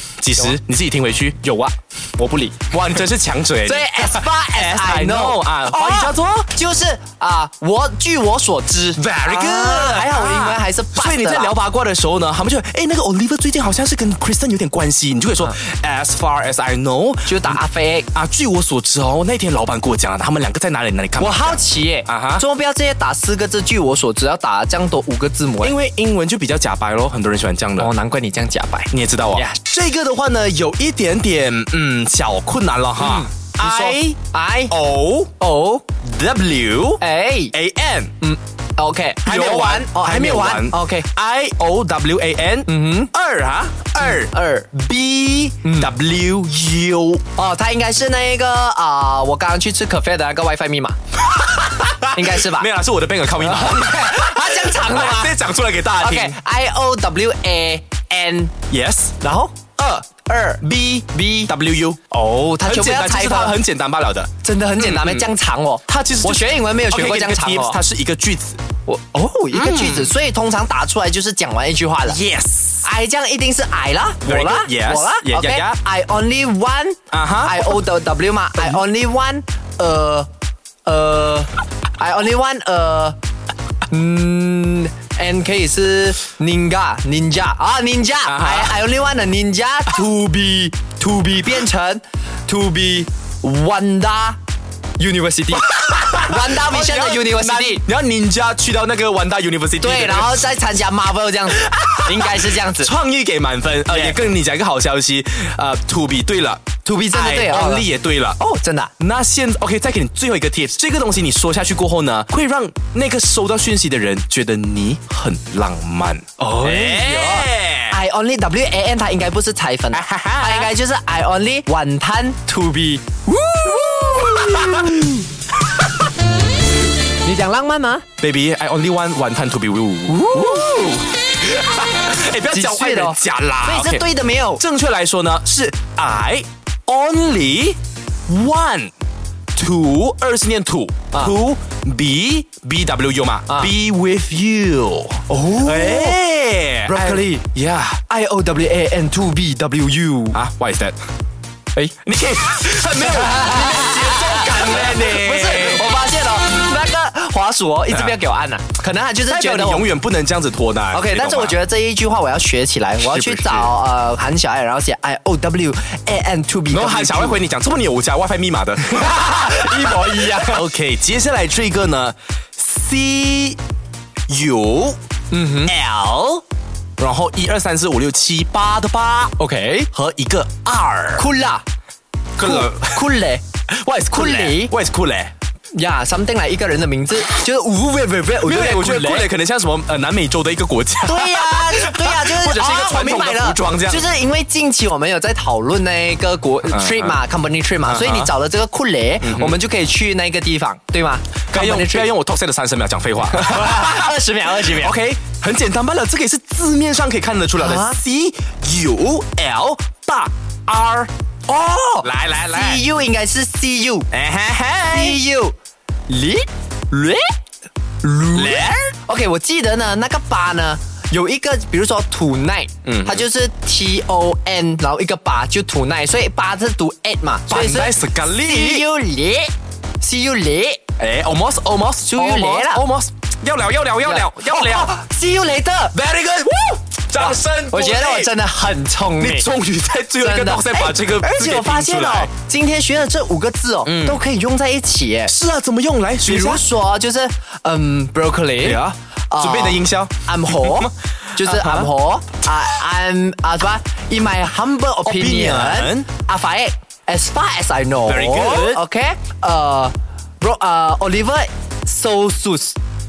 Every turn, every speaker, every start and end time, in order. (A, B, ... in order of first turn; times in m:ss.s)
0:00.2-0:01.4 A
0:01.4-0:02.6 B
0:02.6-0:06.5 A
0:03.6-0:11.5 B
0:09.0-0:17.6 A
0:17.2-0:18.1 B
0:18.1-0:22.4 A
0:21.2-0:25.8 B
0:25.6-0:27.9 A
0:27.8-0:29.5 B
0:28.9-0:34.2 A
0:33.0-0:34.7 B
0:34.7-0:35.3 A
0:35.4-0:35.8 B
0:36.0-0:38.1 A
0:37.0-0:37.5 B
0:38.2-0:41.1 B
0:39.2-0:47.2 A
0:42.7-0:43.1 B
0:44.0-0:45.9 B
0:47.4-0:51.0 B
0:51.3-0:56.4 A
0:51.8-0:52.7 B
0:53.4-0:55.4 B
0:56.0-0:58.5 B
0:58.7-0:59.2 A
0:59.2-1:01.5 B
1:00.6-1:02.0 A
1:02.1-1:03.6 B
1:02.6-1:05.2 A
1:04.4-1:07.8 B
1:05.9-1:08.6 A
1:08.9-1:12.2 B
1:09.5-1:10.1 A
1:12.0-1:12.9 A
1:12.8-1:20.3 B
1:14.2-1:15.8 A
1:17.1-1:17.8 A
1:20.8-1:23.2 B
1:23.9-1:34.4 B
1:28.3-1:28.8 A
1:35.0-1:37.8 B
1:35.5-1:40.5 A
1:39.8-1:42.9 B
1:41.5-1:48.4 A
1:43.9-1:44.1 B
1:46.8-1:48.9 B
1:49.0-1:58.0 A
1:56.4-2:05.2 B
1:59.9-2:00.7 A
2:03.7-2:05.2 A
2:07.2-2:08.0 B
2:08.2-2:14.0 A
2:10.1-2:11.0 B
2:12.5-2:14.6 B
2:14.6-2:18.9 A
2:19.5-2:28.0 A
2:25.3-2:26.2 B
2:26.9-2:27.4 B
2:28.1-2:30.4 B
2:30.3-2:31.0 A
2:32.0-2:35.9 A
2:33.0-2:39.9 B
2:37.9-2:38.2 A
2:39.3-2:41.6 A
2:40.9-2:47.4 B
2:43.0-2:43.7 A
2:46.7-2:53.6 A
2:48.9-2:50.6 B
2:54.3-2:55.0 A
2:55.3-2:55.7 B
2:55.6-2:56.4 A
2:57.0-2:59.3 A
2:59.4-2:59.9 B
2:59.9-3:01.2 A
3:01.2-3:01.6 B
3:02.4-3:03.1 A
3:02.4-3:03.4 B
3:03.7-3:05.3 A
3:04.1-3:04.7 B
3:05.7-3:09.3 B
3:08.4-3:14.1 A
3:11.0-3:22.1 B
3:16.6-3:17.2 A
3:17.8-3:18.3 A
3:19.2-3:19.6 A
3:21.5-3:31.1 A
3:23.3-3:24.9 B
3:27.6-3:28.0 B
3:31.5-3:34.1 B
3:32.0-3:32.8 A
3:34.1-3:35.2 A
3:34.9-3:35.5 B
3:36.1-3:37.3 B
3:38.0-3:50.8 B
3:38.3-3:38.9 A
3:42.8-3:43.2 A
3:47.5-3:48.9 A
3:51.0-3:55.0 A
3:52.0-3:52.8 B
3:54.0-3:56.0 B
3:55.9-3:58.3 A
3:57.1-3:59.5 B
3:59.2-4:02.3 A
4:00.2-4:05.3 B
4:03.8-4:04.2 A
4:05.3-4:06.6 A
4:06.2-4:22.8 B
4:08.6-4:11.9 A
4:15.0-4:16.0 A
4:18.1-4:18.8 A